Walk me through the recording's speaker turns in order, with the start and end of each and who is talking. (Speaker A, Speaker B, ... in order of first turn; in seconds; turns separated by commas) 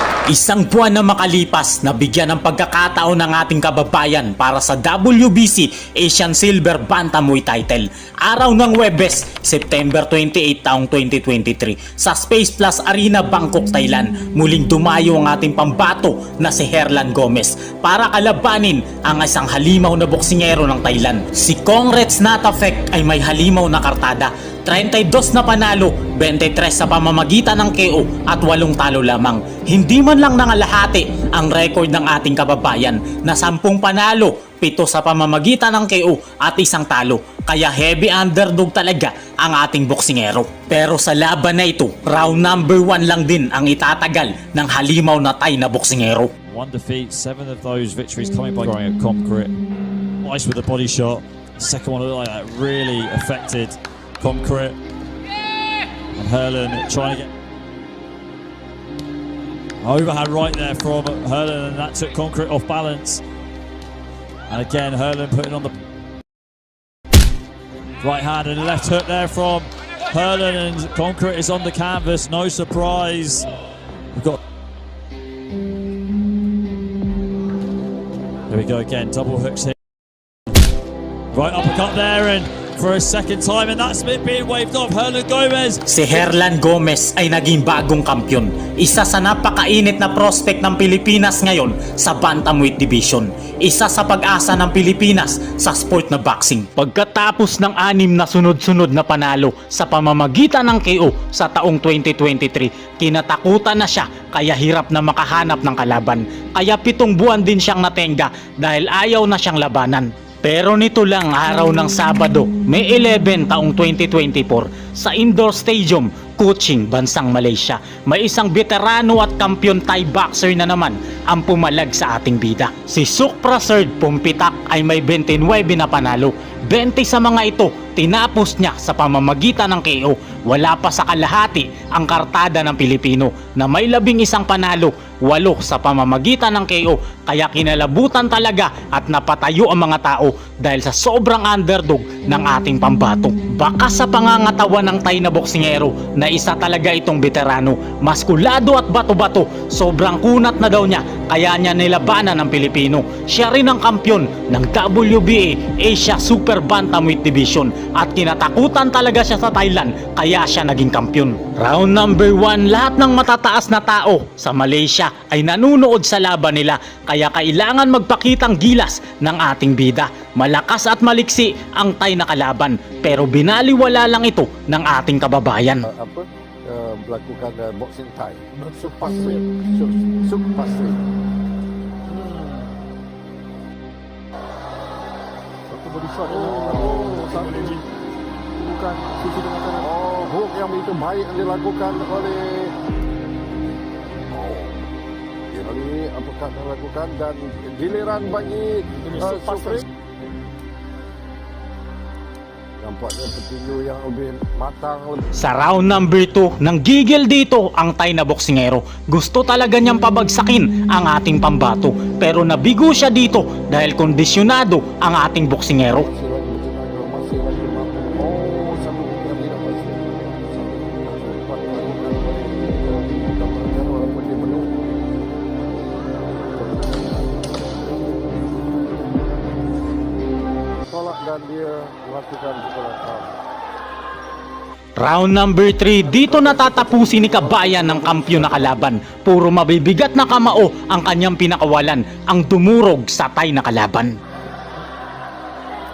Speaker A: 0.3-46.3, Speaker B: 46.5-49.6, Speaker B: 50.2-54.8, Speaker B: 56.2-57.3, Speaker B: 59.8-63.2, Speaker B: 64.5-65.7, Speaker B: 68.0-73.5, Speaker B: 74.1-74.4, Speaker B: 78.5-79.8, Speaker B: 81.3-85.8, Speaker A: 85.9-175.8, Speaker C: 175.8-181.0, Speaker D: 178.7-179.4, Speaker D: 182.2-182.6, Speaker D: 185.7-187.8, Speaker C: 186.3-187.6, Speaker D: 188.6-189.9, Speaker C: 189.8-192.7, Speaker C: 194.3-194.8, Speaker C: 195.5-199.8, Speaker D: 199.0-199.8, Speaker C: 202.8-205.3, Speaker A: 205.4-216.1, Speaker C: 215.9-224.8, Speaker C: 226.6-227.2, Speaker C: 230.9-233.4, Speaker A: 235.0-244.1, Speaker C: 236.0-238.9